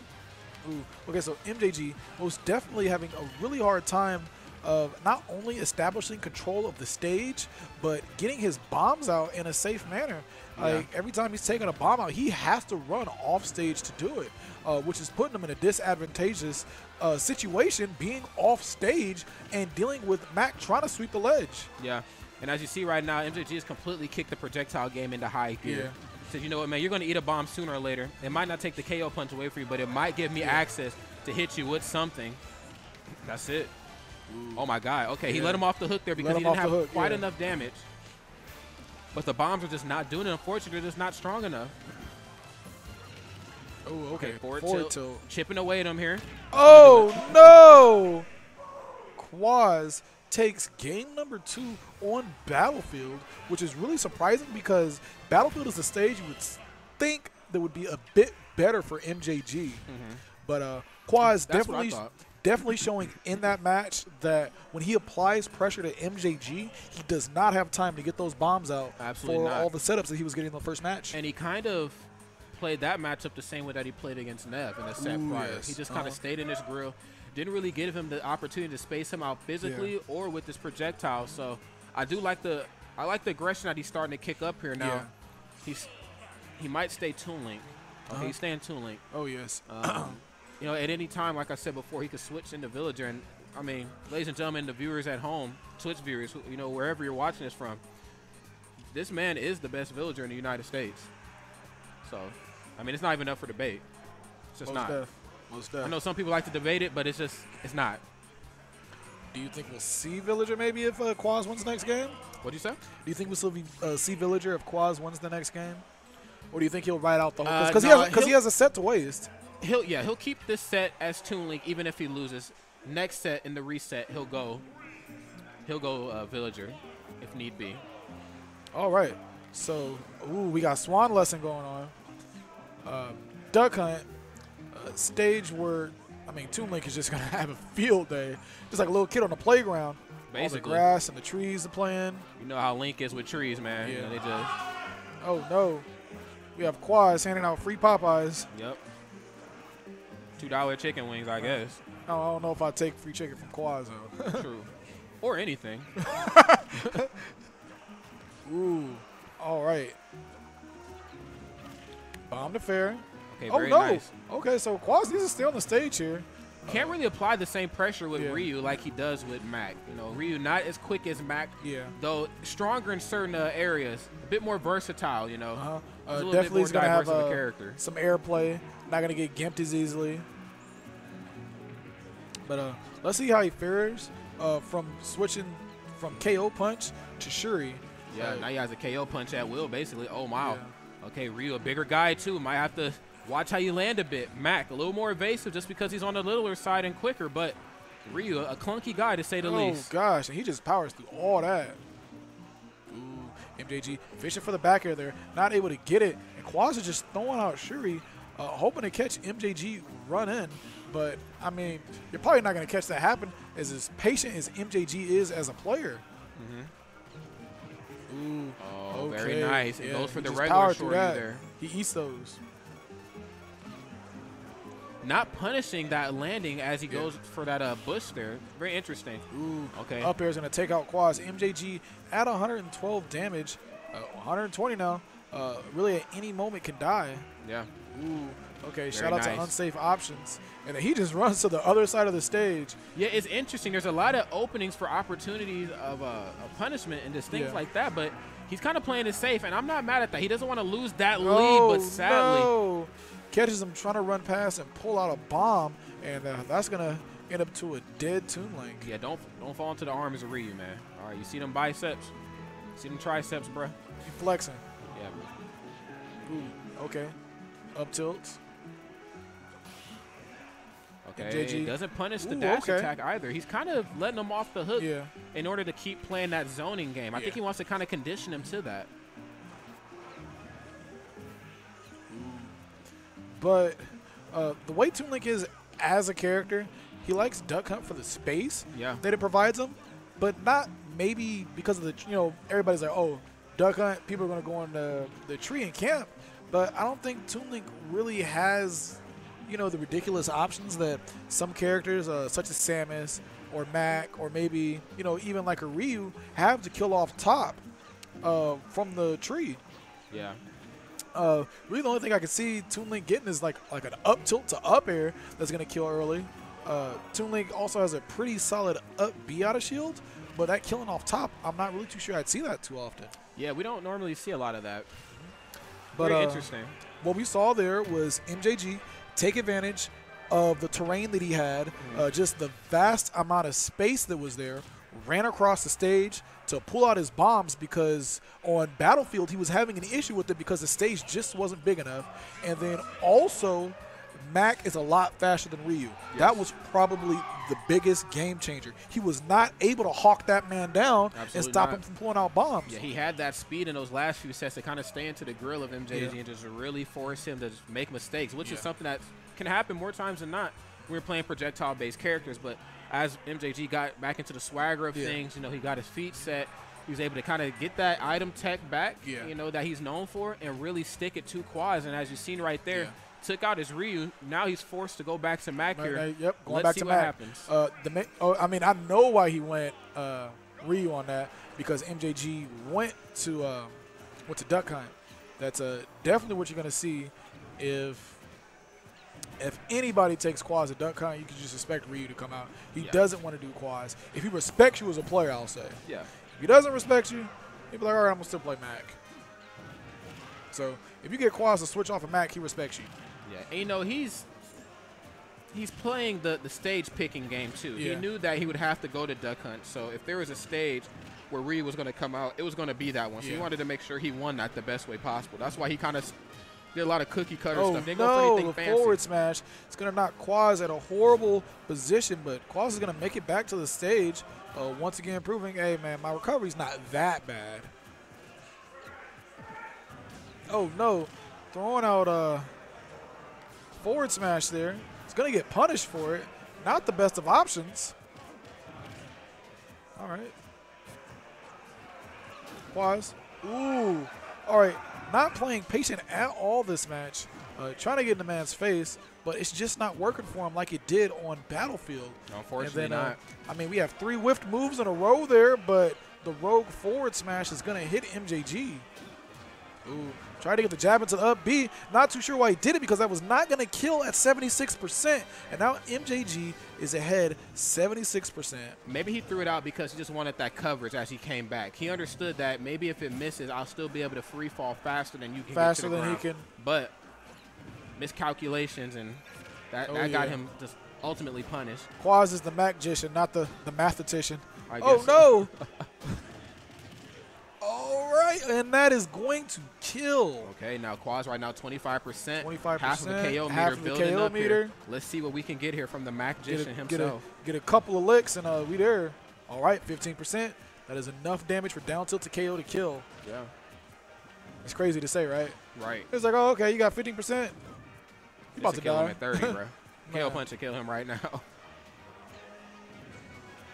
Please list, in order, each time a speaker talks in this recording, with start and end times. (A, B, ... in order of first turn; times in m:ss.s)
0:00.6-0:21.7 A
0:10.6-0:10.9 B
0:21.8-0:32.4 B
0:25.6-0:26.0 A
0:33.2-0:33.7 B
0:34.3-0:34.6 A
0:34.5-0:37.8 B
0:35.2-0:37.3 A
0:39.1-0:41.7 B
0:43.8-0:45.2 A
0:44.1-0:47.3 B
0:46.5-0:48.3 A
0:49.2-0:59.8 A
0:59.9-1:00.2 B
1:00.4-1:11.2 A
1:01.2-1:02.1 B
1:09.0-1:09.7 B
1:11.1-1:25.1 B
1:15.0-1:16.2 A
1:19.6-1:19.9 A
1:24.8-1:25.1 A
1:25.6-1:25.9 B
1:26.6-1:29.0 B
1:28.1-1:28.4 A
1:29.1-1:30.2 A
1:29.7-1:37.8 B
1:38.9-1:41.1 B
1:42.0-1:43.8 B
1:44.5-1:45.0 B
1:44.6-1:46.0 A
1:45.8-1:48.0 B
1:49.3-1:52.2 A
1:52.4-1:52.8 B
1:53.0-1:55.8 A
1:56.5-1:59.3 A
1:57.4-1:58.4 B
1:59.6-2:04.6 B
2:05.6-2:07.8 B
2:08.7-2:11.9 A
2:12.8-2:14.1 A
2:14.7-2:22.2 A
2:20.3-2:20.8 B
2:22.4-2:24.5 B
2:23.8-2:24.2 A
2:25.2-2:25.9 A
2:26.6-2:28.5 A
2:28.5-2:28.8 B
2:30.4-2:31.8 B
2:31.4-2:34.4 A
2:34.3-2:34.7 B
2:35.2-2:35.9 B
2:36.0-2:37.1 A
2:38.4-2:40.0 A
2:42.3-2:47.0 A
2:43.3-2:44.1 B
2:46.7-2:57.8 B
2:48.1-2:48.5 A
2:51.6-2:51.9 A
2:55.5-3:00.2 A
3:02.4-3:08.5 A
3:08.1-3:19.9 B
3:10.4-3:10.7 A
3:19.4-3:21.8 A
3:22.9-3:36.0 A
3:36.4-3:36.7 B
3:38.1-3:42.4 A
3:38.6-3:41.4 B
3:45.0-3:50.1 B
3:49.3-3:57.2 A
3:57.4-3:57.7 B
3:57.9-4:02.8 A
3:58.9-3:59.5 B
4:02.9-4:12.5 B
4:07.3-4:07.6 A
4:11.2-4:18.9 A
4:18.8-4:22.1 B
4:22.8-4:23.8 B
4:24.0-4:24.6 A
4:24.9-4:25.3 B
4:26.2-4:27.1 A
4:27.7-4:28.4 A
4:31.0-4:38.9 B
4:31.2-4:32.9 A
4:34.8-4:35.1 A
4:37.1-4:37.4 A
4:42.1-4:42.6 A
4:43.4-5:07.6 A
4:48.7-4:49.0 B
5:08.2-5:09.6 A
5:10.1-5:10.4 B
5:11.1-5:23.1 A
5:23.4-5:24.9 B
5:25.9-5:26.5 A
5:26.0-5:26.8 B
5:27.0-5:52.8 A
5:31.8-5:32.1 B
5:46.1-5:46.4 B
5:51.1-5:51.8 B
5:52.7-6:17.5 B
5:55.9-5:56.2 A
5:58.4-5:58.7 A
6:04.9-6:05.2 A
6:09.0-6:09.3 A
6:15.7-6:28.2 A
6:29.4-6:35.8 A
6:32.8-6:33.0 B
6:36.4-6:39.0 A
6:40.5-6:42.9 A
6:43.2-6:44.3 B
6:45.5-6:56.1 B
6:47.8-6:48.0 A
6:53.2-6:53.5 A
6:56.7-6:59.0 B
6:57.5-7:07.7 A
7:10.5-7:12.5 A
7:13.8-7:17.9 A
7:20.0-7:20.3 A
7:22.7-7:38.8 A
7:32.3-7:33.2 B
7:39.9-7:48.8 A
7:48.8-7:56.9 B
7:55.5-7:56.4 A
7:58.0-8:01.9 B
7:59.9-8:00.4 A
8:02.0-8:05.5 A
8:04.7-8:05.8 B
8:07.6-8:10.5 A
8:10.4-8:17.2 B
8:12.4-8:14.7 A
8:16.5-8:23.0 A
8:23.2-8:23.5 B
8:24.6-8:25.6 A
8:25.7-8:26.1 B
8:26.1-8:27.6 A
8:28.6-8:30.4 A
8:28.6-8:31.4 B